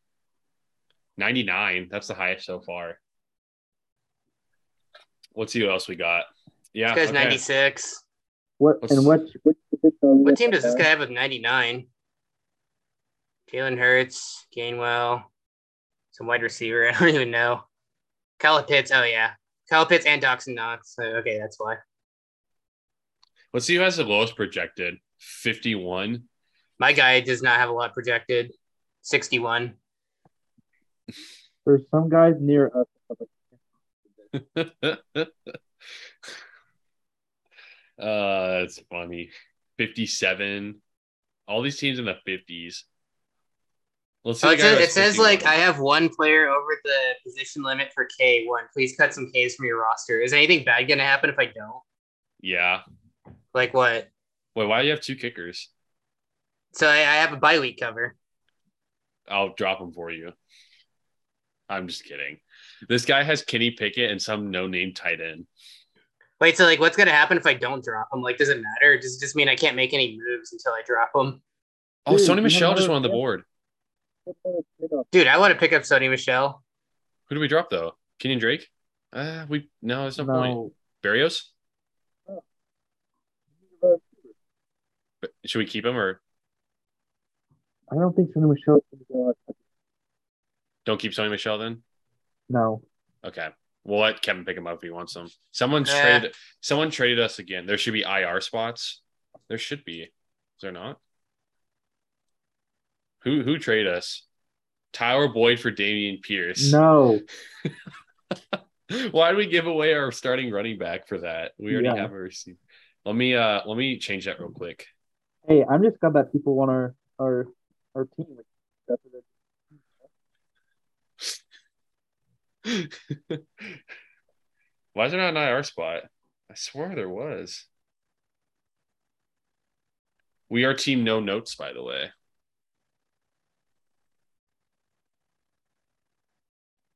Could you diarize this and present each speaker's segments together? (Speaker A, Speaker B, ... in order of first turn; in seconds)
Speaker A: 1.2-3.0, 5.4-7.4, 8.8-9.1, 23.5-26.3, 34.3-35.5, 38.0-40.8, 41.5-42.9, 44.2-45.5, 52.4-52.8, 54.5-55.7, 59.3-60.4, 61.7-65.5, 72.1-73.5, 77.3-81.5, 85.2-86.2, 90.8-91.8, 93.2-101.0, 103.2-104.2, 104.9-106.8, 108.9-114.9, 122.7-123.8, 124.9-127.7, 130.5-132.1
Speaker B: 6.9-8.0, 10.2-11.9, 13.5-15.3, 16.1-17.6, 18.4-21.8, 26.8-28.5, 29.0-29.8, 44.4-51.8, 53.5-54.1, 56.7-58.1, 66.4-71.4, 75.1-76.6, 95.8-96.3
Speaker C: 8.6-10.9, 31.6-33.6, 72.1-73.2, 74.2-75.1, 80.2-80.7, 83.6-84.3, 87.9-89.6, 92.5-92.8, 106.6-107.2, 111.7-112.1, 115.5-119.3